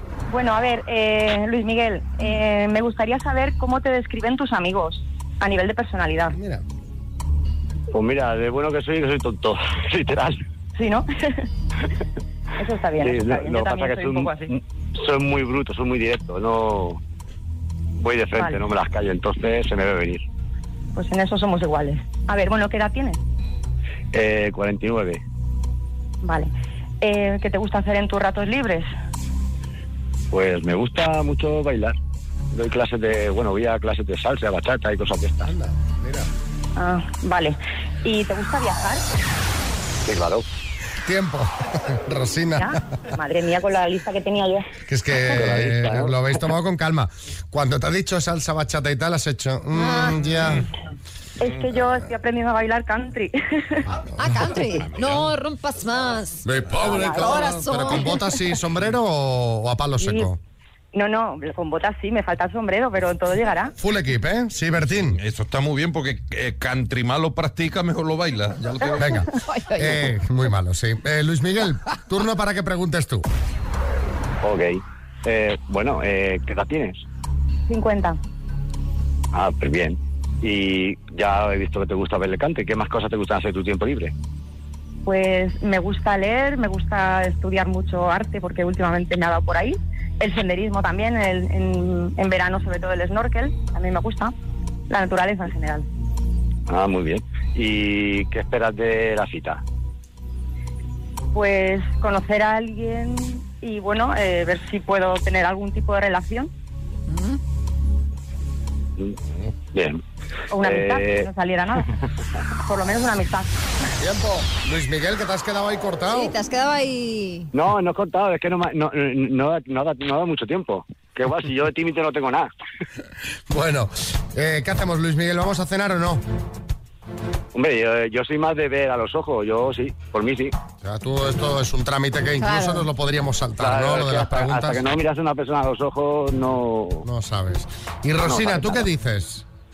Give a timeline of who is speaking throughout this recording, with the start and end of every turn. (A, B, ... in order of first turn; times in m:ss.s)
0:00.3-0:06.4 A
0:06.3-0:06.6 B
0:07.9-0:10.4 C
0:10.8-0:11.4 A
0:12.6-0:14.5 A
0:13.0-0:17.0 C
0:18.0-0:20.2 C
0:20.9-0:23.2 A
0:24.1-0:25.2 C
0:26.2-0:28.9 A
0:30.3-0:32.0 C
0:32.5-0:35.5 C
0:35.4-0:36.3 B
0:36.8-0:39.1 A
0:40.0-0:40.4 C
0:41.0-0:42.7 B
0:42.6-0:44.7 A
0:44.9-0:50.7 B
0:45.3-0:46.1 C
0:49.8-0:50.2 D
0:51.4-0:53.8 A
0:54.2-0:58.5 D
0:56.4-1:00.4 B
0:56.9-0:57.2 A
1:00.0-1:00.3 A
1:00.9-1:03.7 A
1:03.8-1:05.2 B
1:05.2-1:09.2 E
1:09.0-1:13.2 B
1:09.5-1:10.1 D
1:14.4-1:17.0 C
1:17.7-1:18.2 A
1:19.3-1:24.1 C
1:25.0-1:34.3 A
1:34.9-1:35.8 A
1:36.7-1:39.6 C
1:41.3-1:46.5 A
1:47.1-1:47.4 D
1:49.7-1:50.0 C
1:50.5-1:51.9 A
1:50.6-1:51.3 C
1:52.6-1:53.5 A
1:54.0-1:56.3 B
1:56.1-1:57.5 D
1:57.5-2:02.5 C
2:03.5-2:06.2 B
2:07.5-2:10.5 C
2:10.8-2:14.8 B
2:12.4-2:12.9 D
2:13.6-2:17.1 C
2:17.0-2:19.4 B
2:18.3-2:18.9 C